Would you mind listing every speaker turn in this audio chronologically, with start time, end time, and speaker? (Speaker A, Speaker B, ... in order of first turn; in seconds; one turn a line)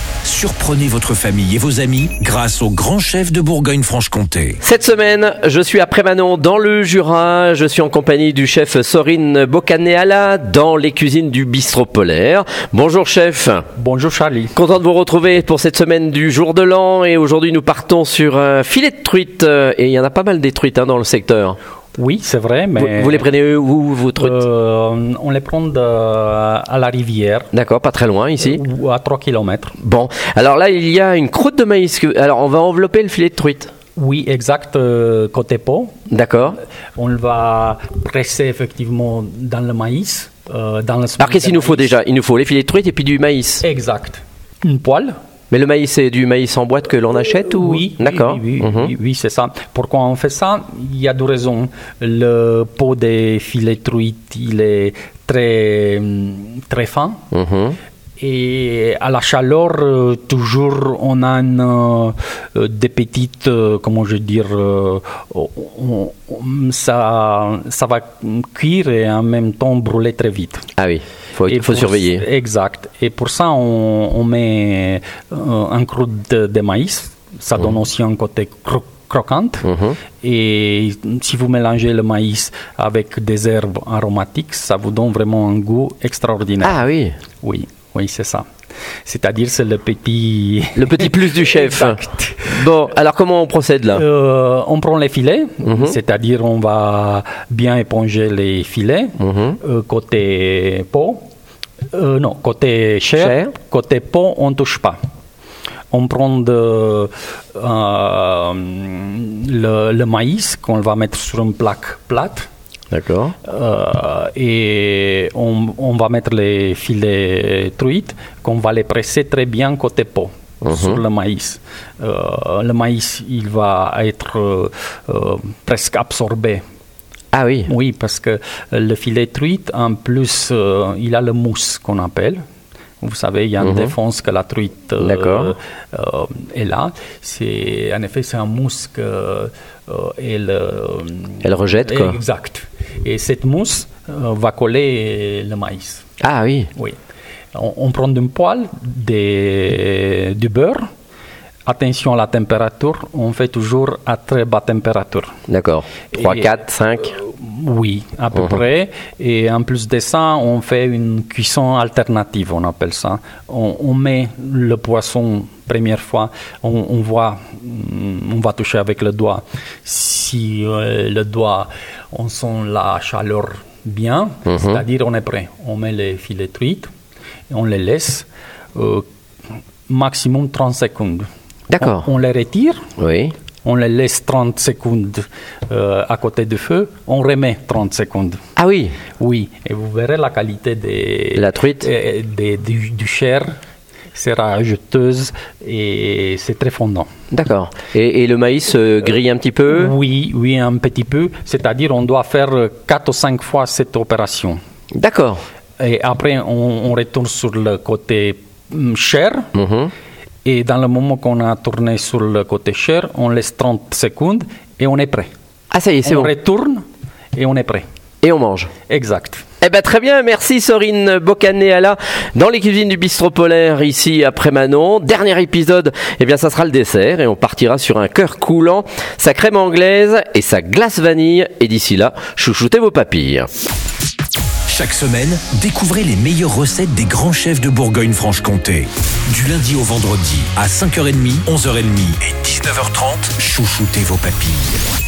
Speaker A: 0.2-4.6
Speaker B: 4.6-13.7
Speaker C: 13.7-14.5
Speaker B: 14.5-21.6
Speaker C: 21.9-23.3
Speaker B: 22.8-24.4
Speaker C: 24.1-27.5
Speaker B: 27.5-28.6
Speaker C: 28.4-29.8
Speaker B: 29.8-33.7
Speaker C: 34.0-35.9
Speaker B: 36.1-36.6
Speaker C: 37.0-41.9
Speaker B: 41.2-43.6
Speaker C: 43.6-45.1
Speaker B: 45.5-48.9
Speaker C: 47.3-57.3
Speaker B: 57.3-57.8
Speaker C: 58.2-70.7
Speaker B: 70.8-72.2
Speaker C: 71.5-79.7
Speaker B: 79.6-80.0
Speaker C: 80.2-86.8
Speaker B: 86.6-87.2
Speaker C: 87.4-88.5
Speaker C: 89.0-92.5
Speaker B: 90.8-94.0
Speaker C: 93.9-101.2
Speaker B: 95.6-96.0
Speaker B: 99.2-99.6
Speaker C: 101.9-105.0
Speaker B: 103.2-103.5
Speaker C: 105.9-112.5
Speaker B: 112.9-113.3
Speaker C: 113.4-126.6
Speaker B: 120.6-121.0
Speaker B: 127.3-127.7
Speaker C: 127.7-132.4
Speaker C: 133.0-146.1
Speaker B: 133.6-133.9
Speaker B: 135.0-135.5
Speaker B: 141.4-142.2
Speaker B: 146.2-146.7
Speaker C: 147.5-150.8
Speaker C: 151.7-155.4
Speaker B: 155.5-157.1
Speaker C: 156.1-176.9
Speaker B: 174.5-174.8
Speaker C: 177.5-179.1
Speaker C: 179.9-181.3
Speaker B: 181.7-182.1
Speaker C: 181.8-182.9
Speaker B: 183.0-183.3
Speaker C: 183.6-188.4
Speaker B: 188.6-188.9
Speaker C: 189.2-193.6
Speaker B: 191.3-191.9
Speaker C: 194.1-197.1
Speaker B: 197.3-199.9
Speaker C: 199.7-204.6
Speaker B: 204.9-205.4
Speaker C: 205.8-209.5
Speaker B: 209.5-209.9
Speaker C: 210.4-215.3
Speaker B: 215.7-216.3
Speaker C: 216.0-217.8
Speaker B: 218.2-218.7
Speaker C: 218.9-219.4
Speaker B: 219.6-233.5
Speaker A: 234.7-244.8